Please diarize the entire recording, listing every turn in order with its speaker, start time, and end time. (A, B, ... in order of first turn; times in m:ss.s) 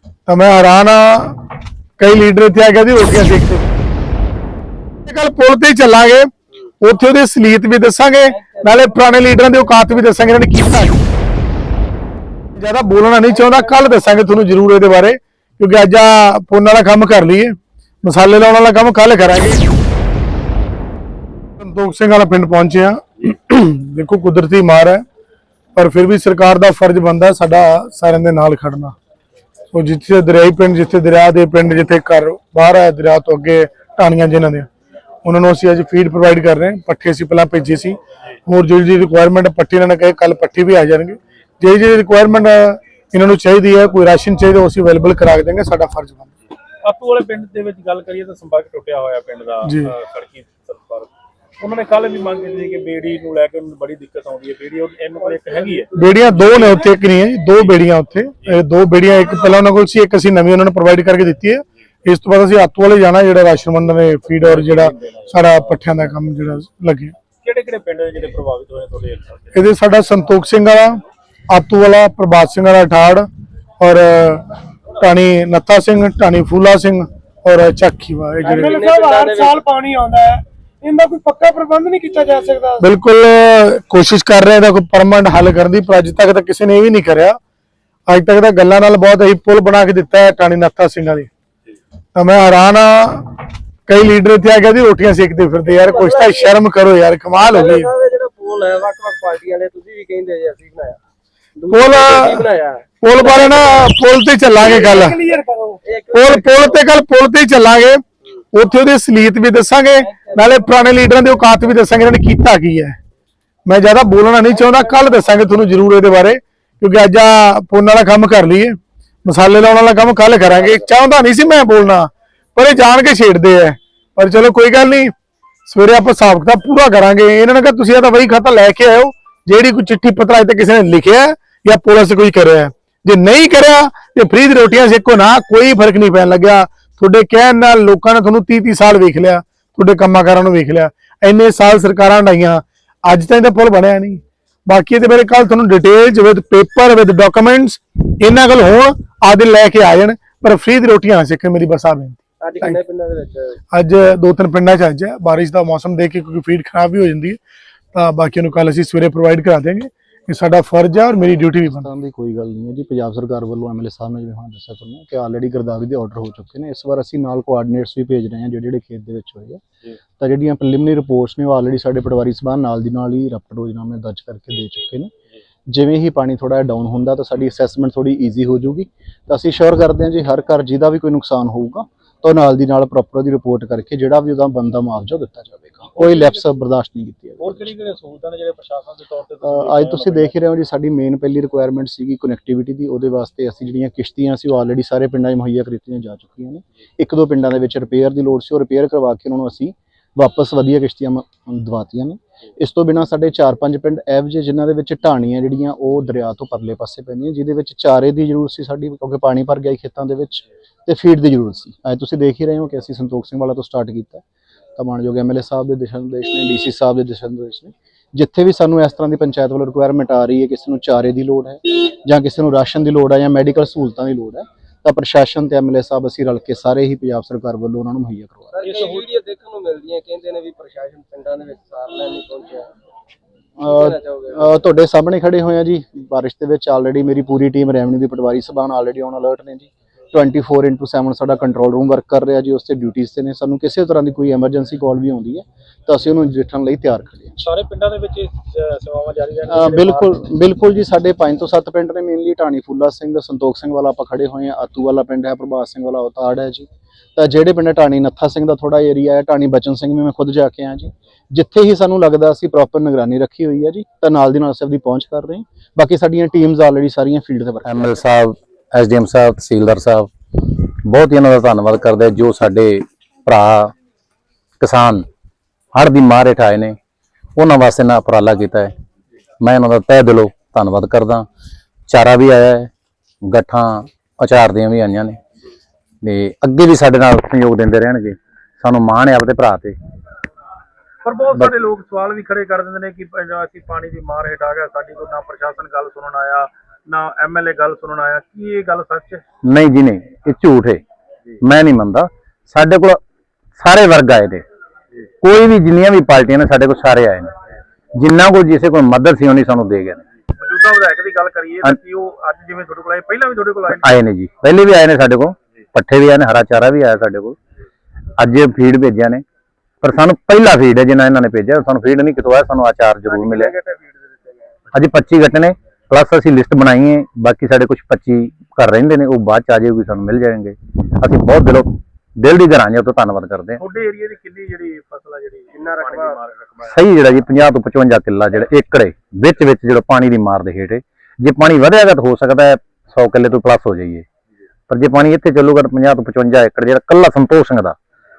0:00.3-0:01.4 A
0:02.0-0:03.7 A
0:05.1-0:06.3 A
0:06.8-0:11.0 A
0:12.6-0:19.6 A
0:21.6-0:25.0 A
0:25.8-0:29.0 A
0:29.7-0:34.7 A
0:35.2-0:46.3 A
0:46.8-0:56.8 B
0:49.7-0:49.9 A
0:55.9-1:07.2 A
1:04.4-1:05.3 B
1:07.4-1:09.5 B
1:09.5-1:13.3 A
1:13.8-1:14.5 A
1:15.0-1:18.8 A
1:18.4-1:19.6 C
1:18.6-1:22.8 D
1:22.8-1:27.4 A
1:28.1-1:31.3 A
1:32.2-1:33.2 A
1:33.9-1:37.9 A
1:35.7-1:36.5 C
1:37.4-1:41.0 C
1:41.6-1:43.9 C
1:41.7-1:42.4 A
1:43.0-1:45.2 A
1:44.6-1:45.8 D
1:45.8-1:46.8 C
1:46.1-1:53.0 A
1:50.1-1:50.6 C
1:53.7-2:05.1 A
2:05.7-2:32.8 A
2:32.4-2:33.6 C
2:33.7-2:37.4 A
2:37.9-2:41.9 A
2:41.7-2:49.6 E
2:50.2-2:55.1 E
2:55.7-3:07.8 E
3:06.0-3:06.4 B
3:07.4-3:10.3 B
3:09.4-3:34.2 E
3:34.8-3:48.6 E
3:48.6-3:52.7 C
3:48.7-3:49.1 B
3:53.6-4:07.4 E
3:53.7-3:54.4 C
4:07.4-4:10.1 B
4:09.5-4:28.0 E
4:27.7-4:33.8 F
4:34.6-4:35.0 F
4:35.7-4:36.8 F
4:37.4-4:38.7 F
4:39.4-4:41.3 F
4:41.9-4:42.7 F
4:43.3-4:45.2 F
4:46.0-4:49.8 F
4:51.0-4:59.2 B
4:59.5-5:00.8 F
5:01.4-5:03.0 F
5:03.6-5:04.4 F
5:05.2-5:07.3 F
5:08.0-5:10.0 F
5:10.4-5:14.0 B
5:13.7-5:17.4 F
5:18.2-5:19.2 F
5:19.8-5:23.6 F
5:23.3-5:24.5 C
5:24.7-5:33.6 F
5:33.6-5:36.7 B
5:35.5-5:36.2 C
5:36.6-5:44.1 F
5:44.7-5:47.8 F